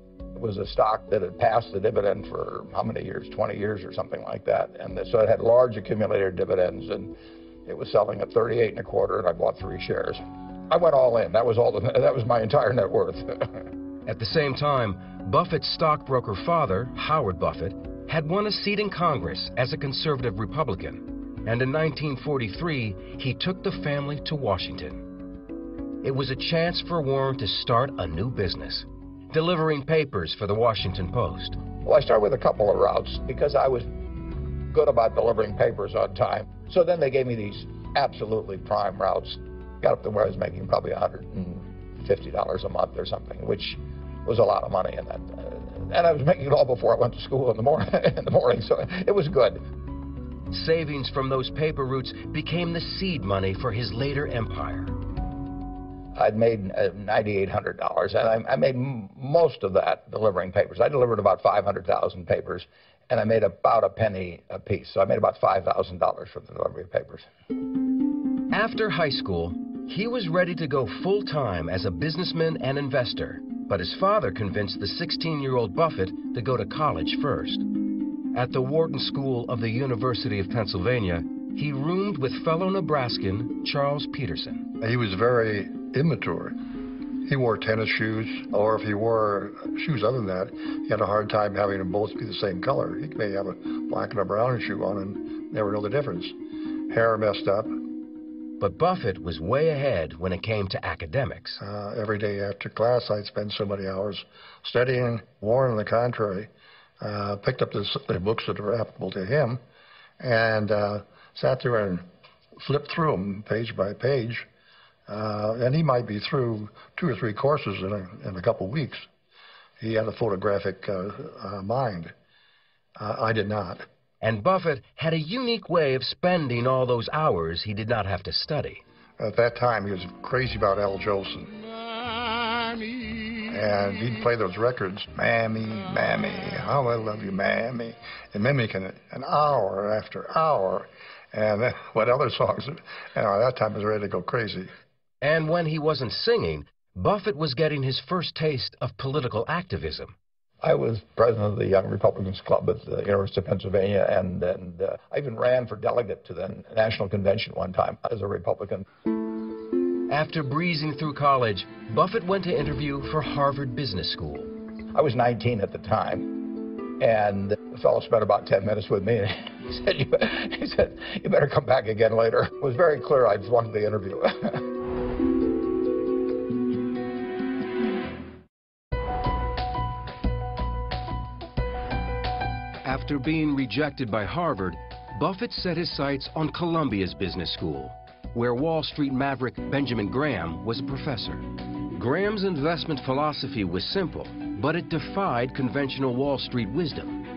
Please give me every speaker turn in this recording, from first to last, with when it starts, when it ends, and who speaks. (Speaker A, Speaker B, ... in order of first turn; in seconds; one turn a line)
Speaker A: 0.3-13.5
Speaker B: 14.1-25.1
Speaker B: 26.0-31.6
Speaker A: 31.8-33.9
Speaker A: 34.7-49.6
Speaker B: 50.5-54.9
Speaker A: 56.1-67.2
Speaker B: 68.5-77.7
Speaker B: 78.3-84.7
Speaker C: 84.8-86.5
Speaker C: 87.2-96.3
Speaker C: 96.9-97.7
Speaker B: 98.6-101.6
Speaker C: 101.6-106.5
Speaker C: 107.0-109.6
Speaker C: 110.2-112.0
Speaker C: 112.6-114.5
Speaker C: 115.1-119.0
Speaker C: 119.8-122.1
Speaker C: 123.0-123.8
Speaker B: 124.2-128.8
Speaker C: 129.2-131.5
Speaker C: 133.5-144.7
Speaker B: 145.2-150.1
Speaker A: 150.6-158.8
Speaker B: 160.1-164.5
Speaker A: 164.9-174.6
Speaker B: 182.8-197.2